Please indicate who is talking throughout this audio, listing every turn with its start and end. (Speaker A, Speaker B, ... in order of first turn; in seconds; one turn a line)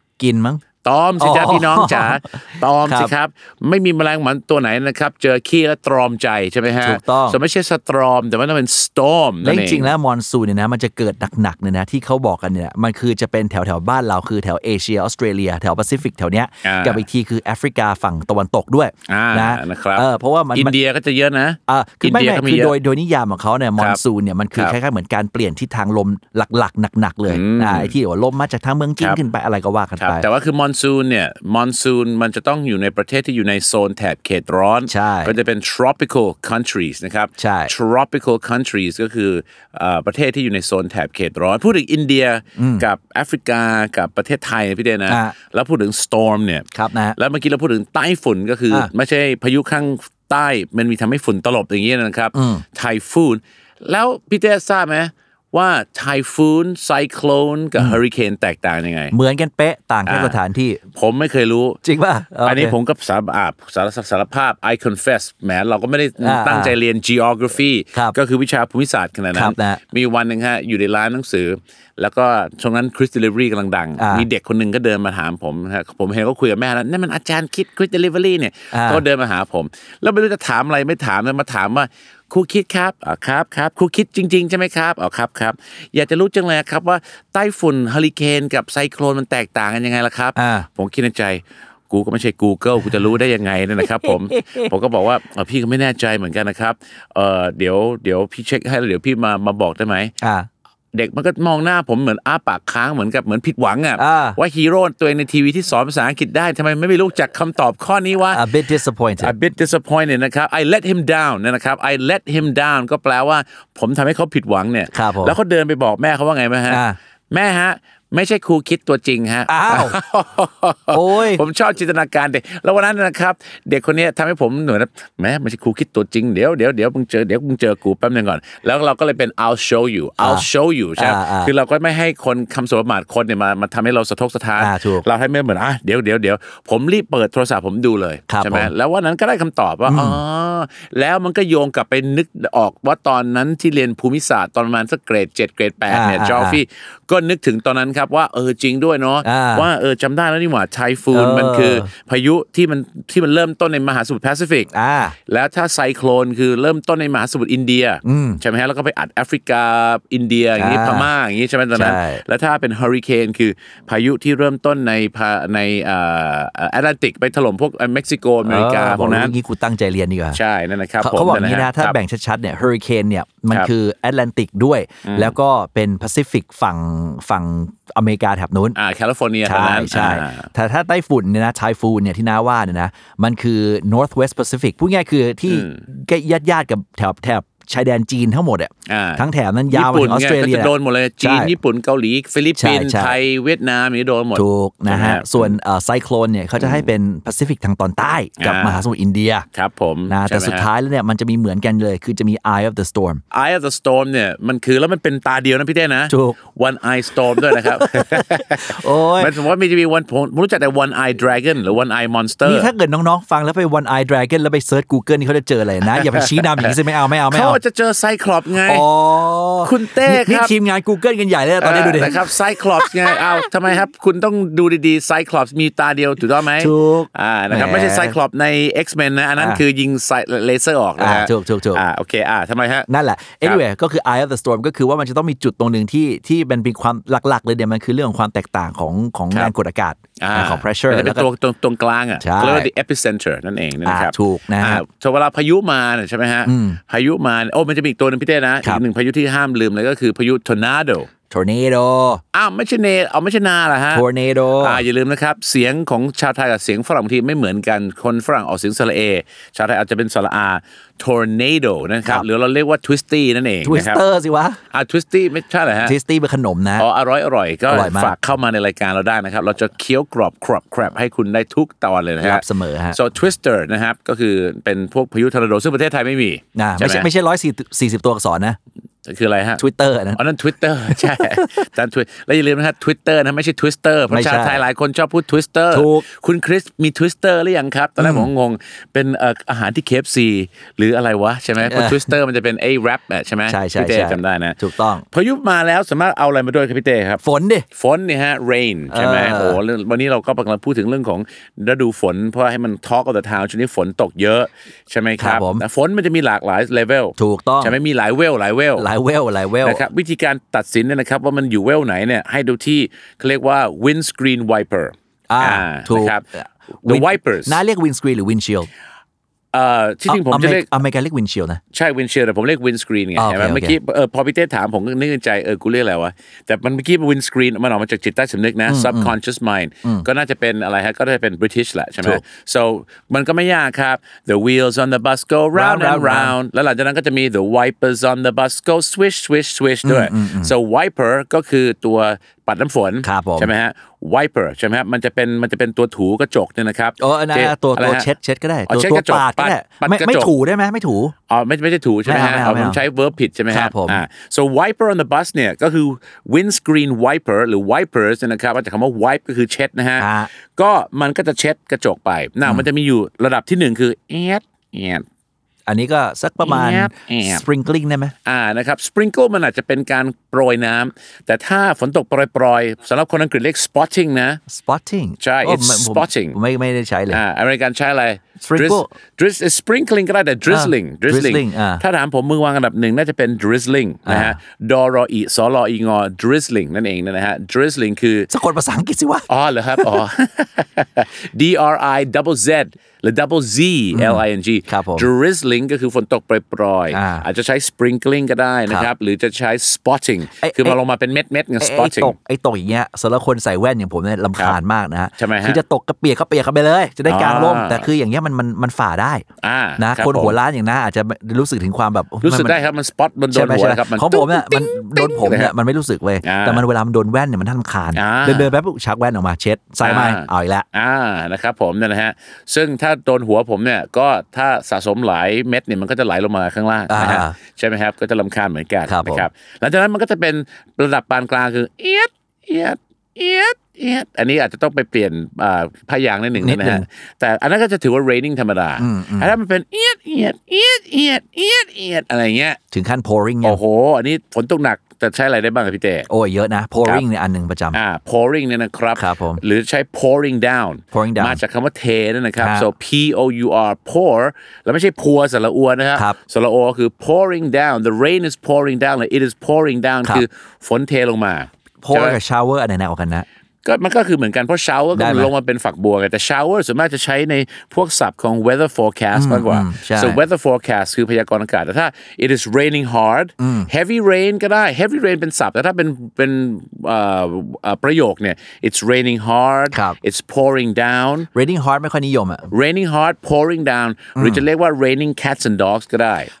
Speaker A: 0.2-0.6
Speaker B: 0.8-9.9
Speaker A: 1.2-3.1
Speaker A: 6.8-7.4
Speaker A: 9.4-20.7
Speaker B: 16.6-17.0
Speaker B: 19.1-22.7
Speaker A: 21.7-30.2
Speaker B: 27.3-27.9
Speaker B: 30.0-59.1
Speaker A: 34.9-35.3
Speaker A: 37.4-37.7
Speaker A: 42.6-42.8
Speaker A: 45.1-45.4
Speaker A: 46.7-47.1
Speaker A: 52.3-52.6
Speaker A: 59.1-60.8
Speaker B: 60.0-60.4
Speaker B: 60.9-61.8
Speaker A: 61.8-62.7
Speaker B: 62.4-100.1
Speaker A: 66.2-66.7
Speaker A: 69.3-69.8
Speaker A: 74.0-74.2
Speaker A: 78.7-79.0
Speaker A: 90.3-90.7
Speaker A: 94.0-94.7
Speaker A: 100.2-100.5
Speaker B: 100.9-108.5
Speaker A: 104.0-104.4
Speaker A: 108.3-109.3
Speaker B: 109.2-154.7
Speaker A: 114.9-115.3
Speaker A: 116.7-117.0
Speaker A: 119.5-119.9
Speaker A: 120.9-121.4
Speaker A: 130.2-130.4
Speaker A: 131.0-131.5
Speaker A: 134.6-135.0
Speaker A: 138.3-138.7
Speaker A: 139.9-140.2
Speaker A: 145.9-146.6
Speaker A: 149.2-149.7
Speaker A: 151.1-151.9
Speaker A: 154.7-155.2
Speaker B: 155.3-169.3
Speaker A: 158.0-158.4
Speaker A: 160.6-161.1
Speaker A: 161.7-162.2
Speaker A: 168.4-170.4
Speaker B: 170.3-171.9
Speaker A: 171.0-178.8
Speaker B: 175.0-175.3
Speaker B: 178.8-180.5
Speaker A: 179.4-191.5
Speaker B: 185.5-185.8
Speaker B: 188.9-195.5
Speaker A: 192.6-193.2
Speaker A: 194.3-199.4
Speaker B: 196.6-196.9
Speaker B: 198.4-198.8
Speaker B: 199.5-200.7
Speaker A: 200.1-203.2
Speaker B: 203.3-212.7
Speaker A: 206.1-206.4
Speaker A: 207.3-209.4
Speaker A: 212.4-217.6
Speaker B: 215.9-216.7
Speaker B: 217.3-218.9
Speaker A: 218.6-223.4
Speaker B: 219.6-220.5
Speaker B: 221.6-232.9
Speaker A: 226.6-228.2
Speaker A: 231.0-231.8
Speaker A: 232.9-241.2
Speaker B: 240.2-251.1
Speaker A: 242.2-242.7
Speaker A: 243.8-244.8
Speaker A: 246.4-246.8
Speaker A: 251.3-252.2
Speaker B: 252.3-254.0
Speaker A: 253.9-254.8
Speaker B: 254.6-264.0
Speaker A: 263.6-264.6
Speaker B: 264.7-265.9
Speaker A: 265.8-266.9
Speaker B: 266.8-277.1
Speaker A: 267.7-268.1
Speaker A: 272.2-273.0
Speaker A: 276.5-278.6
Speaker B: 279.1-279.6
Speaker A: 279.6-280.2
Speaker B: 280.2-294.6
Speaker A: 280.9-281.6
Speaker A: 284.1-284.6
Speaker A: 285.7-286.0
Speaker A: 288.0-288.3
Speaker A: 291.6-292.1
Speaker A: 293.5-295.0
Speaker B: 295.1-297.2
Speaker A: 297.2-297.6
Speaker B: 297.7-308.9
Speaker A: 298.9-299.6
Speaker A: 305.2-305.6
Speaker A: 307.2-307.8
Speaker A: 308.8-309.9
Speaker B: 309.6-316.2
Speaker A: 315.3-318.7
Speaker B: 316.8-317.6
Speaker B: 319.5-320.7
Speaker A: 320.1-321.6
Speaker B: 321.7-348.1
Speaker A: 323.2-323.8
Speaker A: 328.7-329.1
Speaker A: 335.5-336.3
Speaker A: 339.8-340.5
Speaker A: 343.0-343.5
Speaker A: 347.0-351.1
Speaker B: 348.7-350.3
Speaker B: 351.3-365.0
Speaker A: 352.1-352.8
Speaker A: 353.5-354.0
Speaker A: 360.0-360.3
Speaker A: 365.7-368.1
Speaker B: 366.4-367.4
Speaker B: 368.2-374.4
Speaker A: 374.5-377.2
Speaker B: 375.2-376.4
Speaker B: 377.1-388.3
Speaker A: 378.4-378.9
Speaker A: 380.5-381.8
Speaker A: 384.1-384.4
Speaker A: 388.3-390.0
Speaker B: 389.3-402.1
Speaker A: 393.9-395.1
Speaker A: 396.9-397.2
Speaker A: 400.4-400.8
Speaker A: 401.6-409.2
Speaker B: 405.2-405.6
Speaker B: 407.1-407.9
Speaker B: 409.4-410.4
Speaker A: 409.8-412.6
Speaker B: 412.2-415.5
Speaker A: 413.3-420.6
Speaker B: 416.2-416.6
Speaker B: 417.9-418.5
Speaker B: 419.8-442.6
Speaker A: 426.9-427.3
Speaker A: 428.9-429.3
Speaker A: 436.4-436.8
Speaker A: 438.8-439.3
Speaker A: 442.7-443.6
Speaker B: 443.4-446.1
Speaker A: 446.1-447.8
Speaker B: 447.7-462.2
Speaker A: 448.9-449.4
Speaker A: 450.9-451.4
Speaker A: 452.4-452.7
Speaker A: 461.8-463.2
Speaker B: 463.6-481.3
Speaker A: 464.9-465.3
Speaker A: 469.1-470.2
Speaker A: 473.4-473.7
Speaker A: 479.7-480.0
Speaker A: 481.3-482.5
Speaker B: 482.5-486.3
Speaker A: 484.1-484.4